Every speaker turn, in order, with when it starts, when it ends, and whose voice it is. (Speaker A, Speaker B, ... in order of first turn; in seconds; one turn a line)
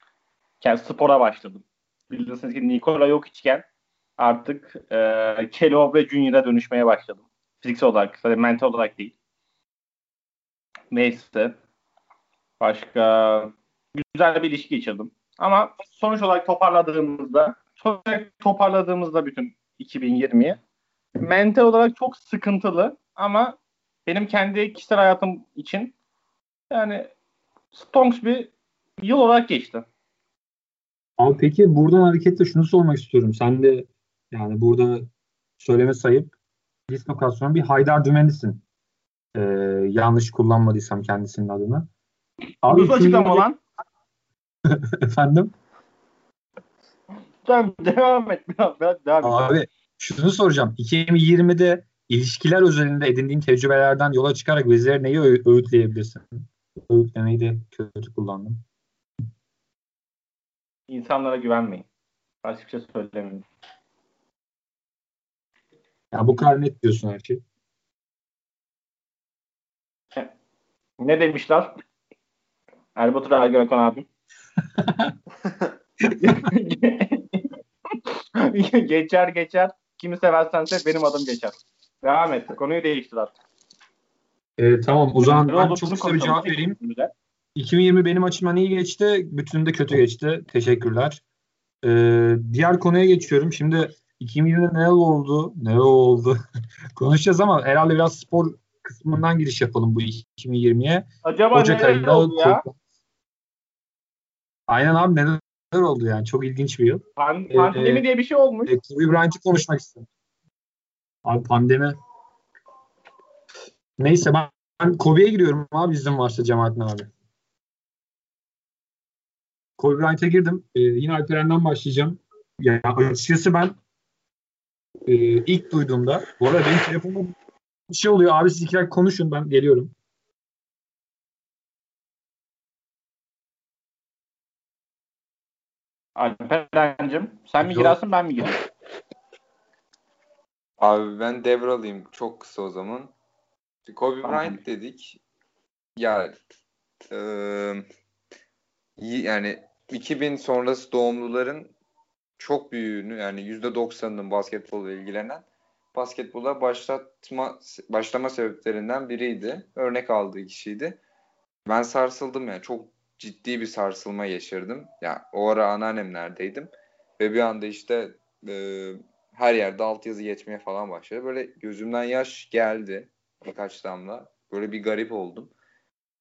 Speaker A: 0.6-3.6
Speaker A: 4.2-9.1
Speaker A: 10.9-11.6
Speaker A: 12.6-20.6
Speaker A: 21.2-25.9
Speaker A: 26.7-27.1
Speaker A: 27.7-29.8
Speaker B: 31.2-36.3
Speaker B: 36.9-38.6
Speaker B: 39.3-41.9
Speaker B: 42.6-43.5
Speaker A: 42.6-43.6
Speaker B: 44.7-45.5
Speaker A: 47.4-49.4
Speaker B: 49.2-58.6
Speaker A: 60.9-61.9
Speaker A: 62.4-63.4
Speaker B: 66.1-67.4
Speaker A: 71.0-71.7
Speaker A: 73.0-74.0
Speaker B: 74.8-75.1
Speaker A: 76.1-83.3
Speaker B: 84.6-86.8
Speaker A: 85.2-87.1
Speaker B: 87.5-91.2
Speaker B: 91.8-96.3
Speaker B: 97.0-102.7
Speaker A: 101.2-102.6
Speaker B: 104.7-108.0
Speaker A: 107.2-108.7
Speaker B: 108.7-110.0
Speaker B: 111.2-112.0
Speaker B: 114.0-117.1
Speaker B: 119.8-123.8
Speaker B: 125.0-127.3
Speaker B: 127.9-129.9
Speaker A: 136.2-138.6
Speaker B: 137.6-138.0
Speaker C: 140.8-143.1
Speaker C: 143.9-145.2
Speaker A: 144.2-144.6
Speaker C: 146.0-146.3
Speaker C: 147.1-147.8
Speaker C: 149.0-151.7
Speaker C: 152.4-161.0
Speaker C: 161.7-175.5